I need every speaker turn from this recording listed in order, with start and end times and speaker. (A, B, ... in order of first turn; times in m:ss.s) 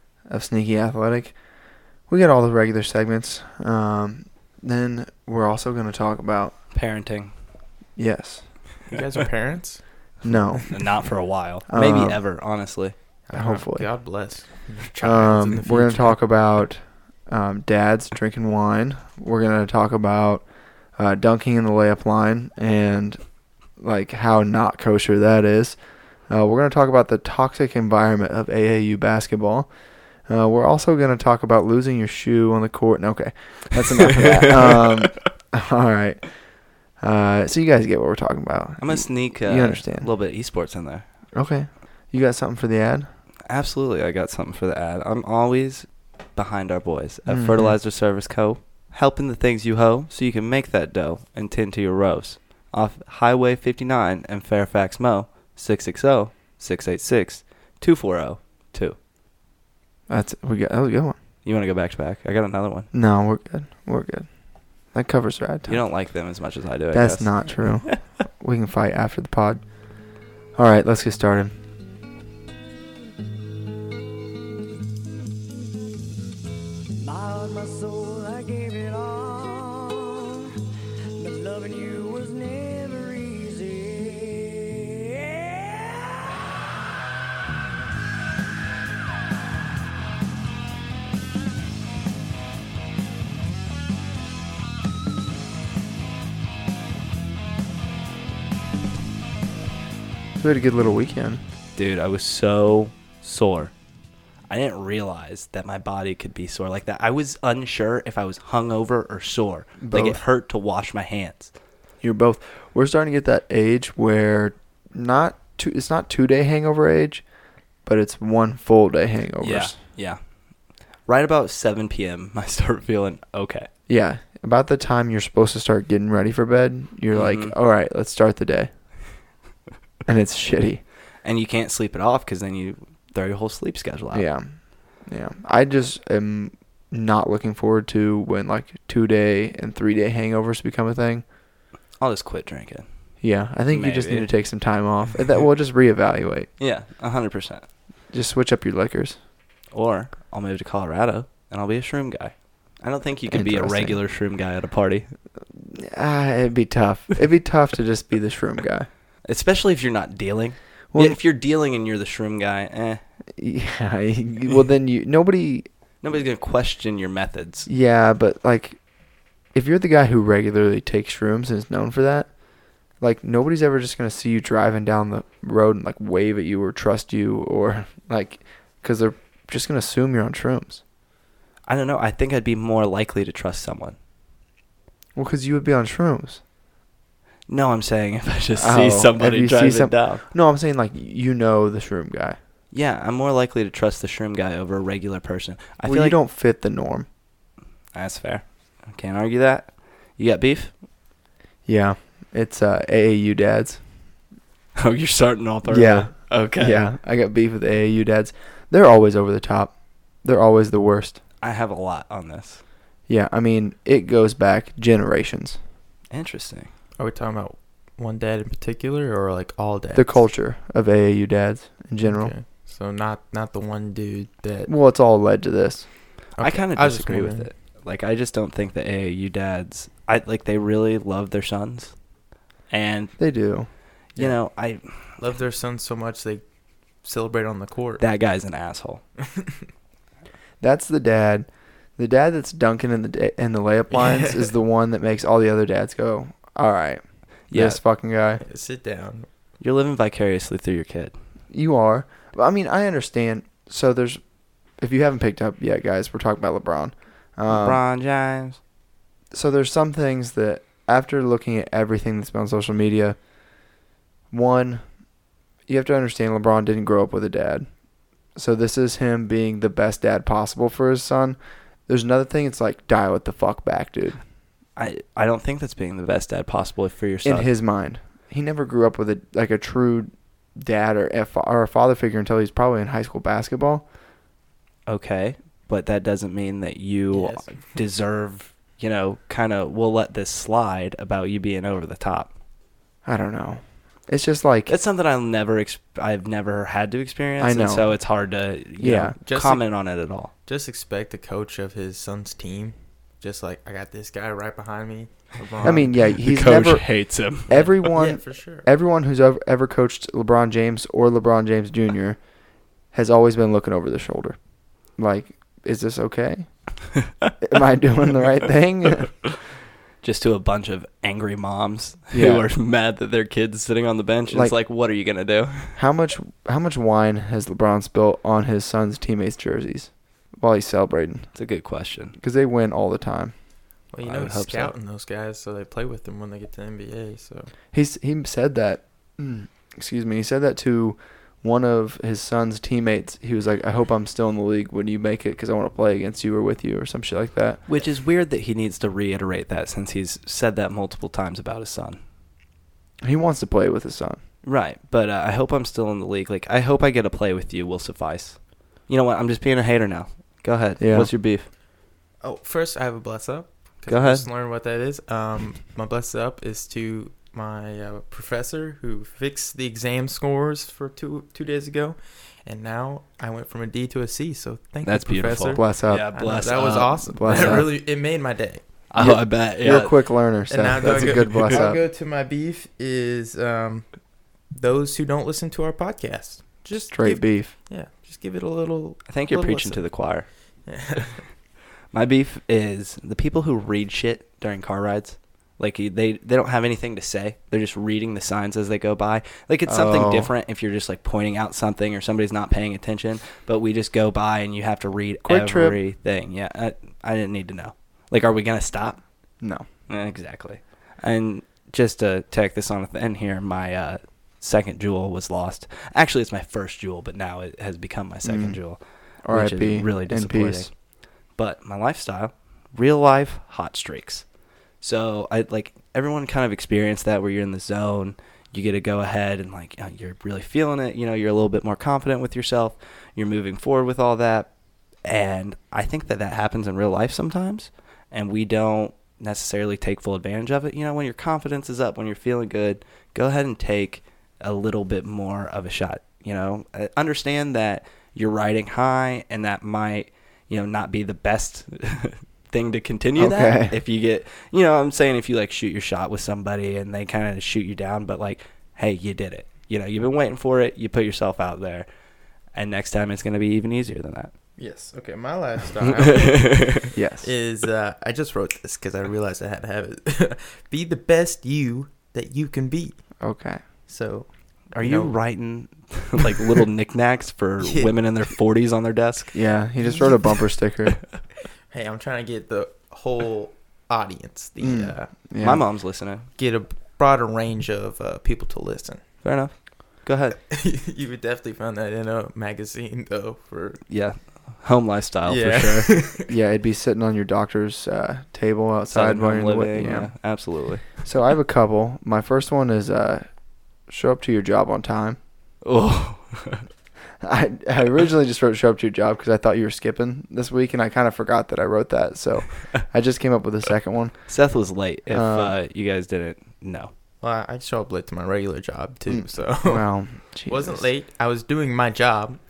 0:00.3-0:01.4 A
0:02.1-0:06.5 A
0:06.7-0:07.3 B
0:08.0-0:08.5 A
0:08.8-0:09.8 C
0:10.2-0:10.8 A
0:10.3-0:12.9 B
0:11.7-0:12.2 A
0:13.3-0:16.2 C
0:13.3-0:13.9 A
0:15.0-0:20.4 A
0:21.0-0:23.2 A
0:23.8-0:25.8 A
0:26.3-0:29.7 A
0:30.2-0:36.3 A
0:37.0-0:40.1 A
0:38.8-0:41.0 B
0:41.3-0:43.1 A
0:43.5-0:59.0 B
0:47.3-0:47.7 A
1:00.1-1:01.2 A
1:01.4-1:02.9 B
1:02.9-1:04.3 A
1:04.9-1:05.8 A
1:05.6-1:08.0 B
1:06.9-1:09.6 A
1:10.5-1:11.5 A
1:17.0-1:20.5 D
1:21.2-1:26.0 D
1:40.4-1:41.4 A
1:41.8-1:43.7 B
1:44.5-1:51.5 B
1:49.8-1:50.2 A
1:52.0-1:57.2 A
1:57.8-1:59.8 A
1:59.4-2:00.2 B
2:01.0-2:03.7 B
2:03.9-2:08.7 A
2:07.1-2:07.5 B
2:10.0-2:10.8 A
2:11.2-2:14.2 B
2:14.1-2:21.2 A
2:22.0-2:22.8 B
2:23.2-2:26.5 A
2:23.7-2:24.3 B
2:26.6-2:27.6 B
2:28.1-2:29.2 A
2:29.7-2:35.1 B
2:33.3-2:34.0 A
2:35.5-2:38.9 A
2:39.2-2:43.0 B
2:40.9-2:41.2 A
2:43.4-2:45.7 A
2:46.0-2:47.7 B
2:47.7-2:48.8 A
2:49.5-2:52.3 A
2:53.0-3:00.8 A
3:01.6-3:04.0 B
3:05.2-3:06.4 A
3:07.5-3:10.2 B
3:08.6-3:12.4 A
3:12.7-3:16.2 B
3:15.8-3:17.1 A
3:17.9-3:20.7 B
3:21.6-3:23.8 A
3:24.8-3:26.8 B
3:25.6-3:31.2 A
3:31.4-3:32.6 B
3:33.1-3:35.6 A
3:36.1-3:36.7 B
3:37.0-3:40.2 C
3:40.0-3:42.3 A
3:42.0-3:44.7 C
3:44.7-3:45.9 A
3:46.4-3:47.5 C
3:46.4-3:51.9 B
3:52.7-3:53.1 B
3:53.2-3:53.7 A
3:54.1-3:54.8 B
3:55.2-3:56.4 C
3:57.0-3:58.0 C
3:58.0-3:59.0 B
3:59.2-3:59.6 C
4:00.6-4:08.4 A
4:03.9-4:04.5 C
4:07.5-4:07.8 B
4:08.4-4:09.3 C
4:09.6-4:11.1 B
4:11.5-4:14.2 A
4:14.8-4:17.8 A
4:17.5-4:18.6 B
4:19.3-4:23.2 A
4:24.3-4:24.9 A
4:25.7-4:27.7 A
4:28.3-4:34.2 A
4:34.8-4:37.5 B
4:37.2-4:43.8 A
4:44.9-4:52.3 B
4:47.1-4:47.8 C
4:53.0-4:54.7 A
4:54.7-5:00.3 B
4:57.4-4:57.9 A
4:58.8-4:59.2 A
4:59.2-4:59.7 C
5:00.4-5:05.9 C
5:05.6-5:07.6 B
5:05.6-5:06.9 A
5:07.4-5:12.2 A
5:07.6-5:08.7 C
5:12.9-5:14.4 A
5:15.0-5:16.5 A
5:17.4-5:19.1 A
5:20.0-5:25.8 B
5:22.1-5:22.4 A
5:24.3-5:24.6 A
5:25.7-5:31.3 A
5:31.3-5:32.2 B
5:32.2-5:33.3 A
5:33.9-5:37.5 C
5:34.0-5:34.7 B
5:37.7-5:47.6 A
5:47.7-5:52.0 B
5:53.0-5:54.2 A
5:54.4-6:01.5 B
6:00.8-6:01.1 A
6:02.2-6:18.6 C
6:03.9-6:04.2 B
6:14.8-6:17.7 B
6:15.5-6:16.1 A
6:17.1-6:17.7 A
6:18.9-6:19.9 B
6:19.0-6:21.8 A
6:20.5-6:23.9 C
6:20.8-6:21.6 B
6:24.5-6:29.9 C
6:26.9-6:27.5 A
6:29.1-6:30.3 B
6:30.6-6:31.2 C
6:31.9-6:49.0 B
6:39.6-6:40.3 A
6:45.2-6:45.8 A
6:49.9-6:58.8 B
6:58.2-6:58.6 A
6:59.2-7:00.7 A
6:59.3-7:00.7 B
7:01.3-7:04.2 B
7:04.8-7:14.5 B
7:15.0-7:41.8 B
7:33.2-7:33.8 A
7:42.5-7:44.3 B
7:44.6-7:53.0 C
7:45.8-7:46.9 B
7:46.9-7:47.3 A
7:53.2-7:53.6 A
7:53.9-7:55.1 C
7:54.7-7:59.3 B
7:57.6-7:58.3 C
7:59.3-8:01.0 A
8:01.7-8:05.1 C
8:04.6-8:05.6 A
8:05.4-8:06.3 B
8:06.4-8:09.0 C
8:09.2-8:10.4 B
8:10.5-8:13.8 C
8:13.9-8:15.9 B
8:15.2-8:16.3 C
8:16.3-8:20.1 A
8:18.9-8:20.8 B
8:21.0-8:23.3 A
8:23.9-8:25.2 A
8:25.6-8:26.6 B
8:27.2-8:34.2 A
8:34.3-8:36.9 B
8:35.1-8:35.5 A
8:37.2-8:42.4 C
8:39.1-8:40.9 A